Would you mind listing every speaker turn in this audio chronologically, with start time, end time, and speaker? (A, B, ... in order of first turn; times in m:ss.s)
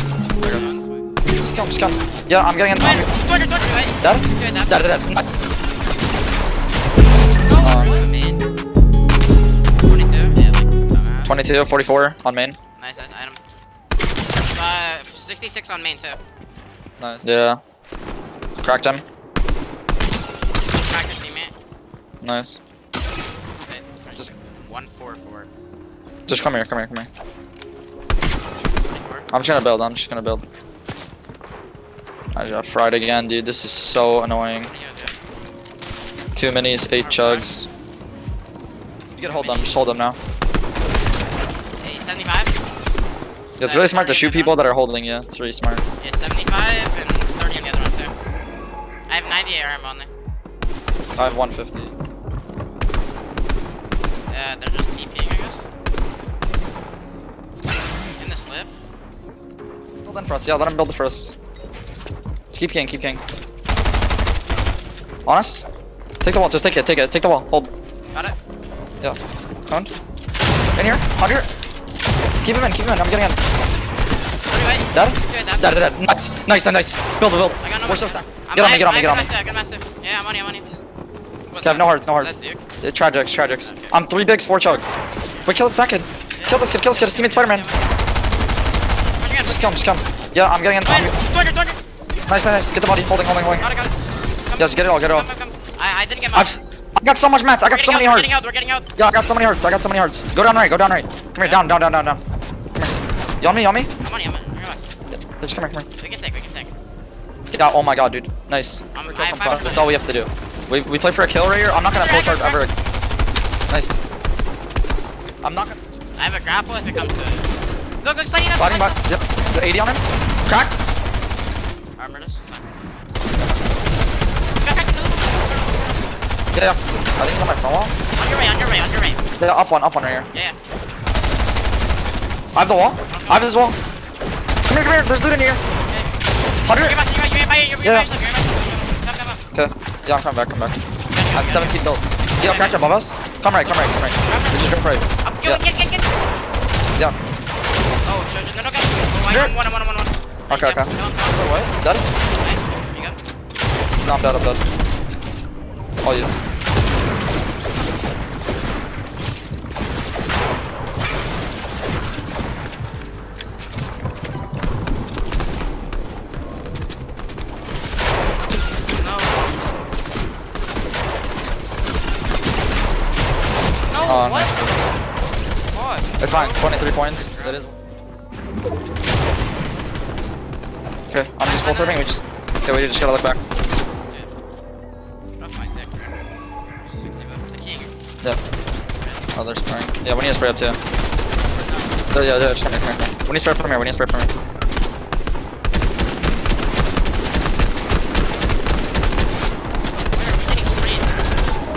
0:00.4-0:01.1 A
0:01.4-0:03.1 B
0:02.8-0:05.0 A
0:04.0-0:05.4 B
0:07.4-0:08.5 A
0:07.6-0:07.9 B
0:09.8-0:11.4 A
0:11.3-0:12.6 B
0:12.8-0:13.4 A
0:14.5-0:16.2 A
0:17.0-0:17.6 B
0:18.6-0:19.0 B
0:20.7-0:21.5 A
0:22.2-0:22.6 B
0:23.6-0:25.5 A
0:26.3-0:27.1 B
0:28.9-0:29.3 A
0:29.3-0:30.4 B
0:32.3-0:34.7 B
0:34.6-0:35.2 A
0:36.3-0:37.7 B
0:37.0-0:37.5 A
0:39.2-0:40.2 B
0:39.2-0:39.8 A
0:41.8-0:42.5 A
0:43.5-0:44.6 A
0:43.6-0:45.8 B
0:46.0-0:48.1 A
0:49.1-0:50.1 A
0:51.2-0:51.9 B
0:54.3-0:55.6 A
0:58.2-0:58.7 A
1:00.0-1:01.3 B
1:02.5-1:03.2 B
1:05.2-1:05.6 B
1:06.2-1:07.7 B
1:10.8-1:11.5 B
1:12.4-1:13.4 B
1:14.4-1:15.8 A
1:14.9-1:19.3 B
1:17.6-1:20.7 A
1:21.5-1:22.6 A
1:21.6-1:27.7 B
1:23.6-1:24.0 A
1:25.3-1:25.5 A
1:26.3-1:28.0 A
1:29.2-1:29.8 A
1:29.4-1:31.1 B
1:30.8-1:31.8 A
1:32.3-1:33.7 B
1:33.6-1:34.0 A
1:34.5-1:36.6 A
1:34.6-1:35.2 B
1:36.3-1:38.4 B
1:37.6-1:38.9 A
1:39.0-1:42.2 B
1:41.4-1:41.6 A
1:42.8-1:43.9 B
1:44.0-1:44.9 A
1:45.1-1:45.9 B
1:46.0-1:46.7 A
1:47.5-1:52.7 B
1:49.0-1:50.0 A
1:51.7-1:52.7 A
1:53.7-1:54.0 B
1:55.4-1:55.8 B
1:56.2-1:57.5 A
1:58.0-1:59.1 A
1:58.5-2:00.8 B
2:02.0-2:02.8 A
2:04.6-2:06.2 A
2:06.5-2:07.9 B
2:08.1-2:09.2 A
2:09.4-2:10.3 B
2:12.5-2:13.8 B
2:13.0-2:13.5 A
2:14.7-2:15.6 B
2:15.8-2:19.4 A
2:16.6-2:17.0 B
2:19.5-2:20.8 B
2:21.1-2:21.8 A
2:21.3-2:25.6 B
2:22.4-2:22.8 A
2:24.2-2:24.7 A
2:25.2-2:26.1 A
2:28.0-2:31.7 A
2:29.3-2:29.5 B
2:30.5-2:30.9 B
2:31.7-2:32.0 B
2:32.2-2:33.2 A
2:34.0-2:34.6 B
2:36.0-2:36.3 B
2:48.9-2:49.5 A
2:53.9-2:54.8 A
2:54.0-2:54.7 B
2:55.7-2:57.6 A
2:56.2-2:57.7 B
3:01.1-3:03.4 B
3:01.4-3:03.2 A
3:04.0-3:04.3 A
3:05.4-3:06.1 A
3:06.7-3:07.9 A
3:08.9-3:09.3 A
3:09.3-3:10.8 B
3:11.5-3:12.1 A
3:12.1-3:14.3 B
3:20.1-3:21.2 A